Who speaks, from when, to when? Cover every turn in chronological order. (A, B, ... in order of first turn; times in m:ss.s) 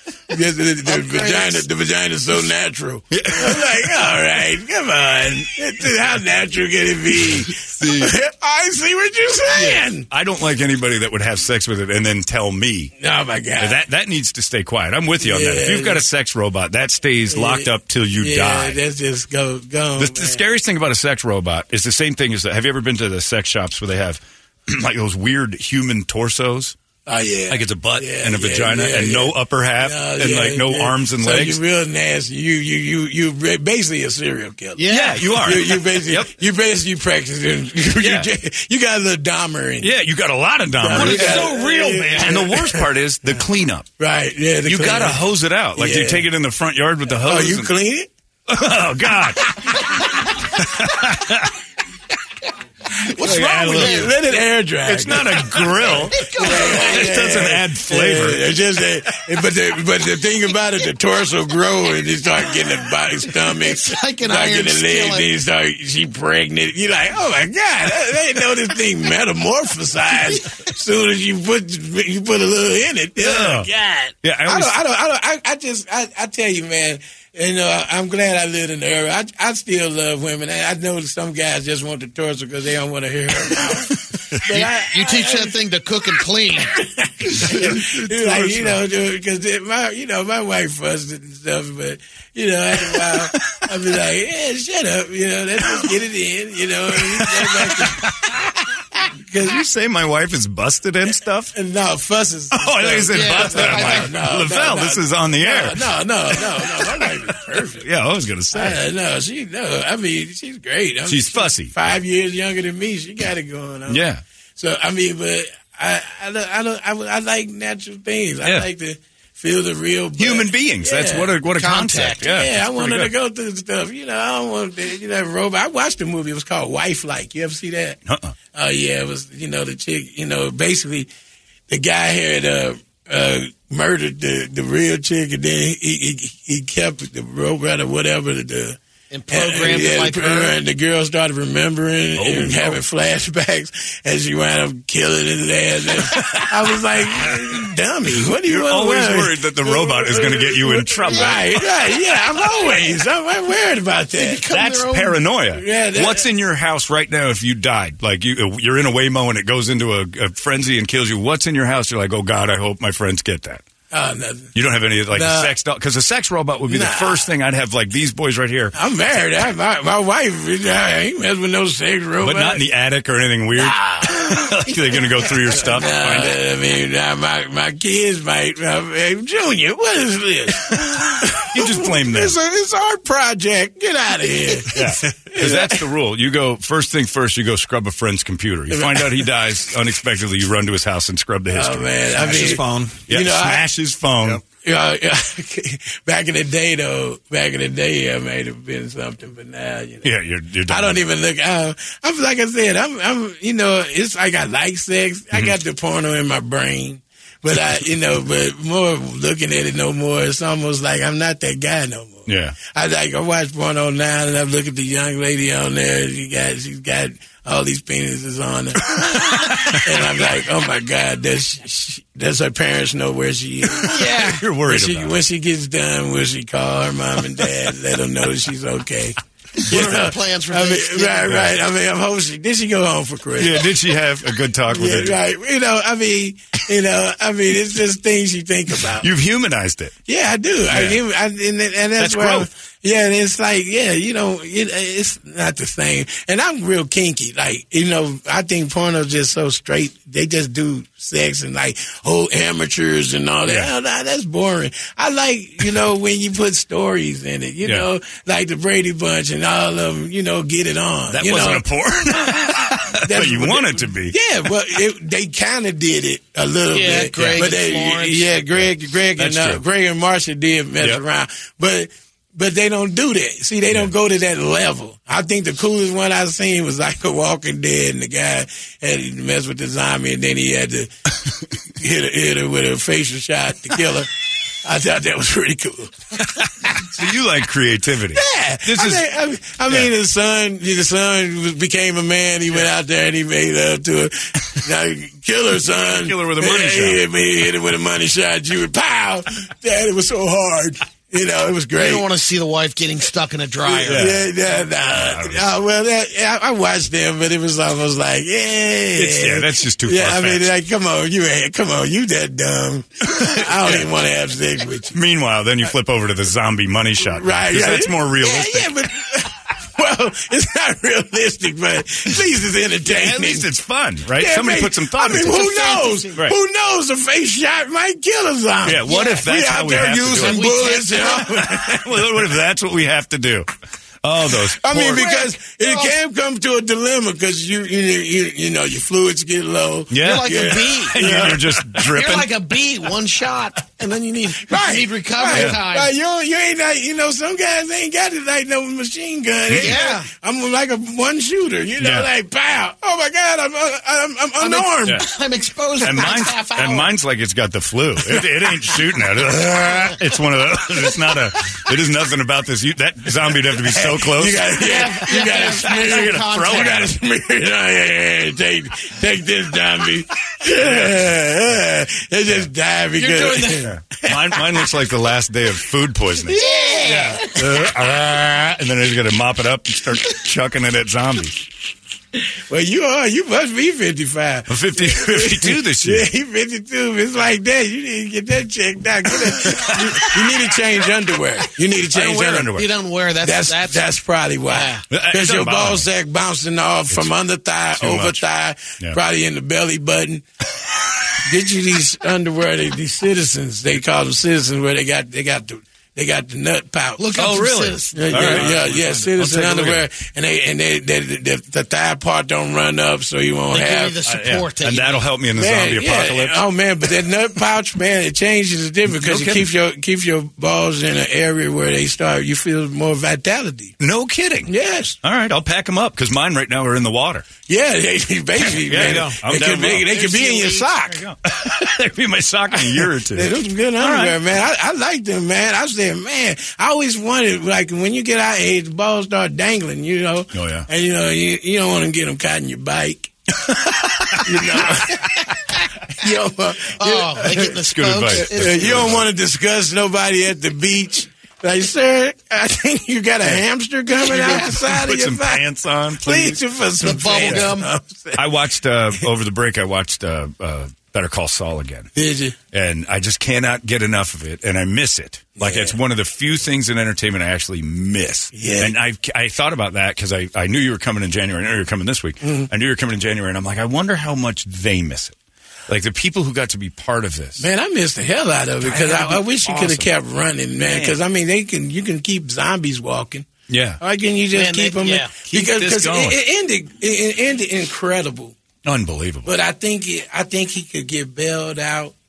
0:00.3-0:10.0 A
0:00.8-0:01.6 B
0:03.1-0:04.1 C
0:07.2-0:08.1 C
0:09.5-0:12.9 C
0:13.0-0:13.8 A
0:13.6-0:18.8 C
0:15.2-0:16.0 A
0:17.3-0:20.4 A
0:20.0-0:26.7 C
0:27.1-0:39.9 A
0:27.5-0:31.6 C
0:34.8-0:35.3 B
0:34.9-0:36.3 C
0:38.0-0:38.3 C
0:39.8-0:41.5 C
0:40.8-0:42.8 A
0:40.9-0:42.5 B
0:42.2-0:43.9 C
0:44.0-0:45.2 A
0:44.6-0:47.7 C
0:45.8-0:46.2 A
0:47.2-0:48.1 A
0:48.5-0:49.8 C
0:50.5-0:51.5 C
0:53.1-1:25.6 A
0:53.2-0:54.1 C
0:53.2-0:54.2 B
0:54.8-0:58.4 C
0:56.1-0:57.1 B
1:03.5-1:05.3 B
1:13.2-1:13.7 C
1:14.2-1:14.7 C
1:24.5-1:26.7 B
1:26.5-1:38.3 A
1:27.4-1:28.8 C
1:32.9-1:33.6 C
1:37.0-1:38.3 C
1:39.0-1:39.6 A
1:39.4-1:41.5 C
1:41.5-1:47.8 A
1:42.5-1:47.1 C
1:43.1-1:44.1 B
1:47.8-1:48.8 C
1:48.5-1:54.0 A
1:51.1-1:51.7 C
1:53.9-1:54.2 C
1:54.6-2:01.4 A
2:00.2-2:03.1 C
2:01.5-2:02.3 B
2:02.2-2:08.0 A
2:08.1-2:08.3 C
2:08.5-2:11.1 A
2:11.7-2:18.8 A
2:19.1-2:20.6 B
2:19.3-2:34.4 A
2:22.2-2:22.8 C
2:26.2-2:26.4 C
2:28.4-2:31.6 C
2:31.1-2:31.4 B
2:34.2-2:35.2 B
2:34.5-2:43.6 C
2:35.5-2:36.2 A
2:43.9-2:44.5 A
2:44.5-2:48.7 C
2:45.1-2:45.5 A
2:46.7-2:47.3 A
2:48.7-2:52.6 A
2:52.2-2:56.4 C
2:53.5-2:55.0 A
2:55.5-3:05.8 A
3:00.7-3:02.4 C
3:04.7-3:14.4 C
3:08.7-3:09.3 A
3:11.5-3:13.6 A
3:14.5-3:20.1 A
3:20.0-3:21.0 C
3:20.7-3:53.7 A
3:32.3-3:32.6 C
3:39.4-3:39.8 C
3:43.8-3:45.2 C
3:43.9-3:44.4 B
3:49.7-3:51.4 B
3:51.3-3:51.5 C
3:53.4-3:55.2 C
3:54.7-3:59.1 A
3:58.9-3:59.9 C
4:00.1-4:21.6 A
4:00.7-4:01.0 C
4:02.0-4:02.5 C
4:13.4-4:13.7 C
4:21.1-4:24.2 C
4:23.0-4:40.9 A
4:26.7-4:28.3 B
4:27.1-4:27.5 C
4:29.2-4:29.6 C
4:41.7-4:44.1 A
4:44.6-4:45.9 A
4:46.8-4:49.0 C
4:48.1-5:02.0 A
4:55.8-4:57.0 C
5:01.8-5:04.2 B
5:03.6-5:14.9 A
5:03.8-5:04.2 C
5:04.9-5:05.5 C
5:09.0-5:10.5 C
5:13.2-5:13.9 C
5:14.9-5:18.8 C
5:17.1-5:23.4 A
5:22.8-5:25.5 C
5:24.1-5:32.3 A
5:25.3-5:26.1 B
5:28.6-5:30.4 C
5:30.1-5:31.3 B
5:31.3-5:33.5 C
5:34.0-5:35.1 C
5:34.5-5:41.6 A
5:34.9-5:36.0 B
5:39.9-5:40.3 C
5:40.0-5:45.9 B
5:40.9-5:42.3 C
5:44.5-5:55.0 A
5:45.3-5:45.6 C
5:49.5-5:49.8 C
5:49.5-5:50.1 B
5:51.8-5:52.1 C
5:54.4-5:56.9 B
5:55.8-6:06.9 C
6:03.7-6:14.6 A
6:04.6-6:06.9 B
6:13.0-6:13.7 B
6:13.6-6:21.4 C
6:16.3-6:17.3 B
6:16.3-6:17.2 A
6:22.2-6:32.5 A
6:24.5-6:26.1 C
6:29.4-6:30.4 C
6:31.9-6:32.7 C
6:32.5-6:33.8 B
6:33.2-6:40.2 A
6:34.5-6:34.8 B
6:34.9-6:35.8 C
6:37.7-6:38.2 C
6:41.2-6:47.1 A
6:47.0-6:48.8 B
6:47.1-6:49.8 C
6:47.9-6:54.0 A
6:53.5-6:55.1 B
6:54.0-6:56.4 C
6:55.3-7:03.7 A
6:58.9-6:59.5 C
7:03.8-7:04.5 C
7:04.5-7:05.0 A
7:05.0-7:07.2 C
7:07.5-7:11.0 A
7:08.5-7:14.2 C
7:08.8-7:09.1 B
7:09.9-7:10.6 B
7:12.5-7:23.1 A
7:20.3-7:20.7 C
7:23.5-7:24.7 C
7:24.1-7:25.3 A
7:25.9-7:27.6 A
7:26.8-7:29.0 B
7:27.5-7:29.0 C
7:28.2-7:35.4 A
7:34.0-7:36.4 C
7:36.0-7:38.3 A
7:36.8-7:37.7 B
7:38.1-7:41.9 C
7:42.0-7:42.4 A
7:42.5-7:55.2 C
7:45.4-7:45.8 A
7:48.3-7:48.7 A
7:52.2-7:52.5 A
7:55.7-7:57.4 C
7:57.4-8:03.2 A
7:58.6-7:59.9 C
8:00.6-8:01.0 C
8:03.5-8:03.8 C
8:03.8-8:08.4 A
8:04.3-8:05.2 B
8:05.2-8:06.2 C
8:08.6-8:09.3 C
8:09.2-8:11.9 A